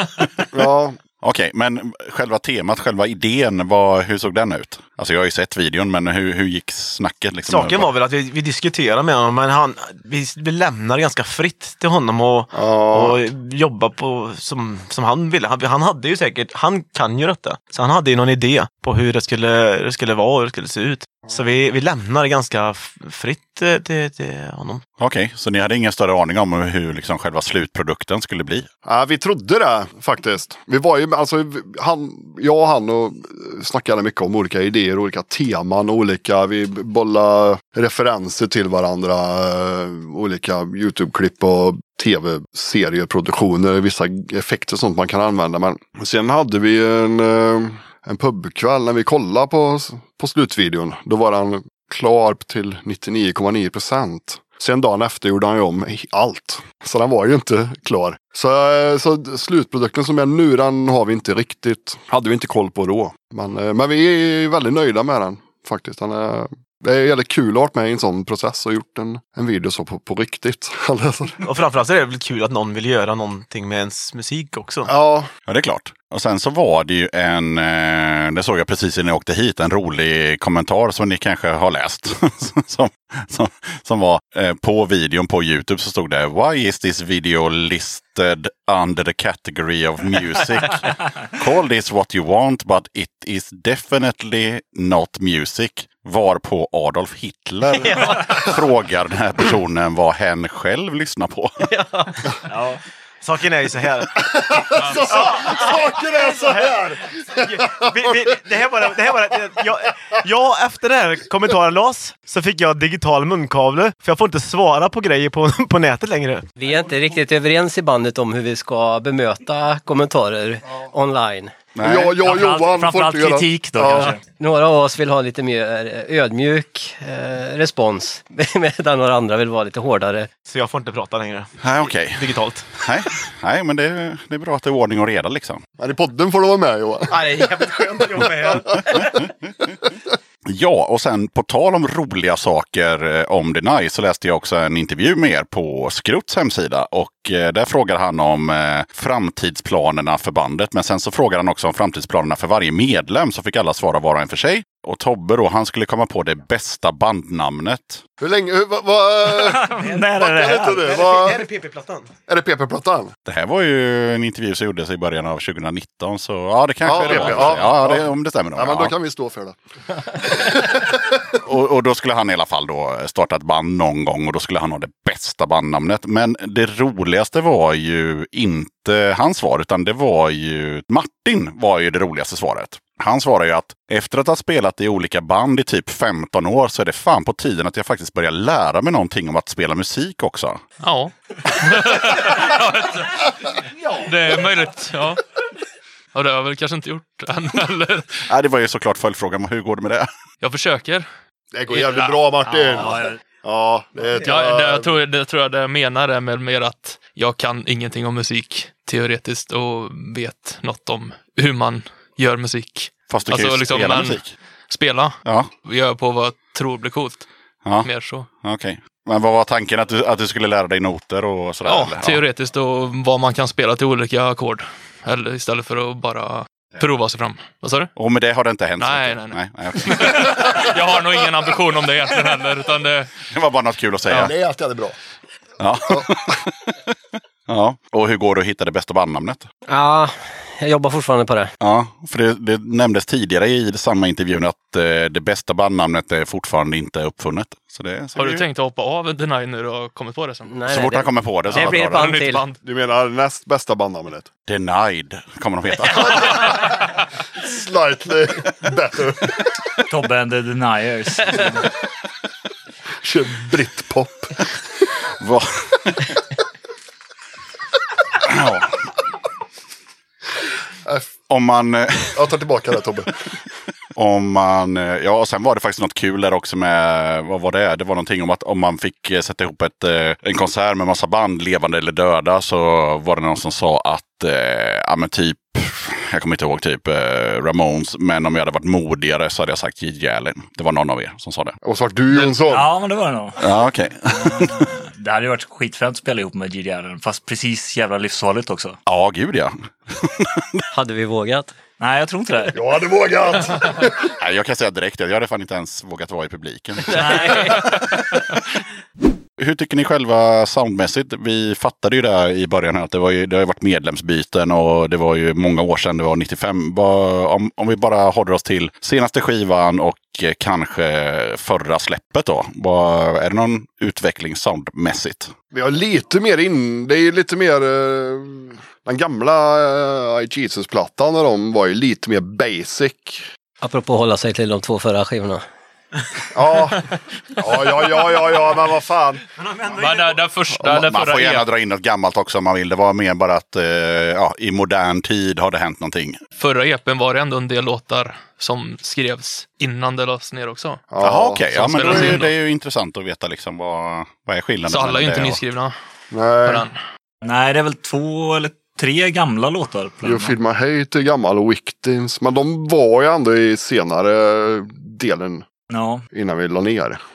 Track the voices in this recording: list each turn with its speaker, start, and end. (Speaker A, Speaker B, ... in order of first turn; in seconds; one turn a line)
Speaker A: 0.5-1.0
Speaker B: 1.2-7.9
Speaker C: 7.5-24.8
Speaker A: 12.5-13.2
Speaker B: 25.0-28.7
Speaker A: 28.9-71.4
Speaker C: 71.4-74.9
Speaker A: 74.9-75.3
Speaker B: 75.5-101.7
Speaker D: 101.8-102.1
Speaker E: 102.5-102.8
Speaker C: 103.2-104.3
Speaker A: 104.3-107.9
Speaker F: 104.8-105.1
Speaker C: 105.1-116.5
Speaker D: 116.6-121.6
Speaker B: 121.8-122.2
Speaker A: 121.8-124.2
Speaker E: 122.2-124.2
Speaker D: 124.3-130.3
Speaker C: 130.5-132.7
Speaker B: 131.6-135.6
Speaker A: 135.8-137.5
Speaker C: 137.1-139.3
Speaker A: 138.5-139.0
Speaker B: 140.4-158.0
Speaker A: 158.2-161.5
Speaker E: 159.4-160.9
Speaker C: 159.7-162.1
Speaker A: 162.3-163.1
Speaker B: 163.3-168.9
Speaker A: 166.8-169.6
Speaker A: 170.1-171.0
Speaker B: 171.4-190.6
Speaker F: 190.8-195.2
Speaker F: 196.1-198.2
Speaker B: 198.2-200.1
Speaker F: 200.4-201.1
Speaker A: 201.5-204.9
Speaker F: 201.7-202.2
Speaker E: 202.5-203.2
Speaker F: 204.2-217.3
Speaker B: 213.1-214.3
Speaker B: 215.2-215.5
Speaker F: 217.8-218.3
Speaker B: 218.4-222.2
Speaker F: 221.7-227.9
Speaker B: 228.0-230.4
Speaker F: 228.8-233.1
Speaker B: 233.3-234.3
Speaker A: 234.1-235.0
Speaker B: 235.6-236.9
Speaker B: 237.5-239.5
Speaker D: 239.7-241.5
Speaker B: 241.6-248.4
Speaker F: 248.2-250.7
Speaker D: 250.5-252.4
Speaker B: 250.7-252.1
Speaker F: 251.5-252.6
Speaker A: 252.6-254.3
Speaker B: 254.5-256.4
Speaker A: 257.4-259.5
Speaker E: 259.9-261.7
Speaker A: 263.0-264.4
Speaker B: 265.2-266.1
Speaker B: 268.2-268.8
Speaker B: 271.3-272.3
Speaker A: 272.1-273.2
Speaker B: 273.9-291.6
Speaker A: 291.6-292.7
Speaker E: 292.1-293.4
Speaker B: 293.4-294.7
Speaker E: 294.1-298.8
Speaker B: 298.9-300.6
Speaker D: 300.7-301.6
Speaker E: 301.8-302.6
Speaker A: 302.5-304.1
Speaker B: 304.2-307.2
Speaker D: 306.9-307.8
Speaker E: 306.9-307.6
Speaker B: 309.4-325.3
Speaker A: 325.5-333.3
Speaker D: 333.6-335.4
Speaker A: 336.3-339.2
Speaker C: 339.4-340.2
Speaker F: 339.7-341.5
Speaker B: 340.7-346.2
Speaker F: 346.4-350.8
Speaker A: 350.9-352.2
Speaker B: 351.0-355.4
Speaker F: 351.6-352.3
Speaker F: 354.7-355.8
Speaker A: 356.1-356.7
Speaker F: 356.4-356.8
Speaker E: 357.2-360.4
Speaker A: 360.0-365.5
Speaker E: 365.7-366.1
Speaker A: 366.1-367.0